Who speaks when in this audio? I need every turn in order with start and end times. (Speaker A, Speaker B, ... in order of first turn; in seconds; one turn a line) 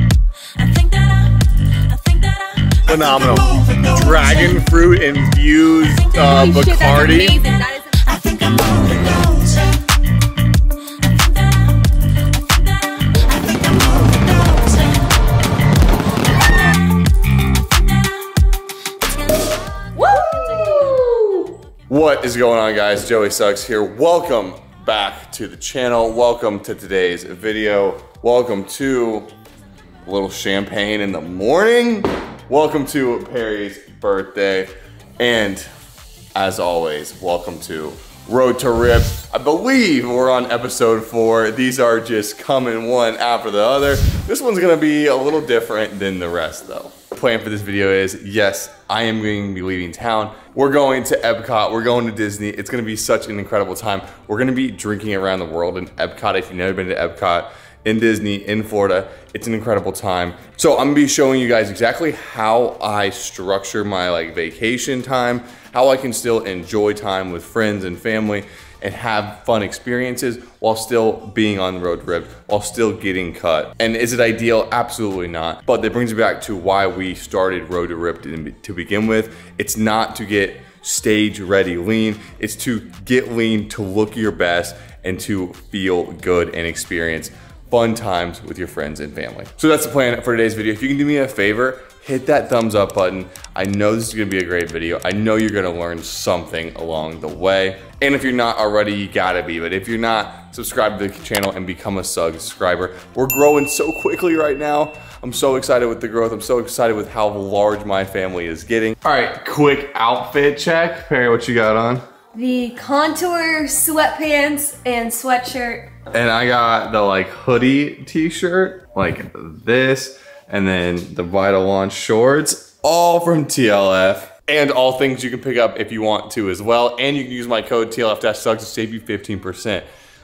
Speaker A: 0.6-4.7
Speaker B: 2.9-7.4
Speaker C: 6.2-8.1
Speaker A: 8.0-9.8
Speaker A: 11.0-11.7
Speaker A: 12.7-15.1
Speaker C: 19.9-21.5
Speaker B: 21.9-29.3
Speaker B: 30.1-35.7
Speaker B: 36.3-112.0
Speaker C: 112.3-115.9
Speaker B: 116.1-129.8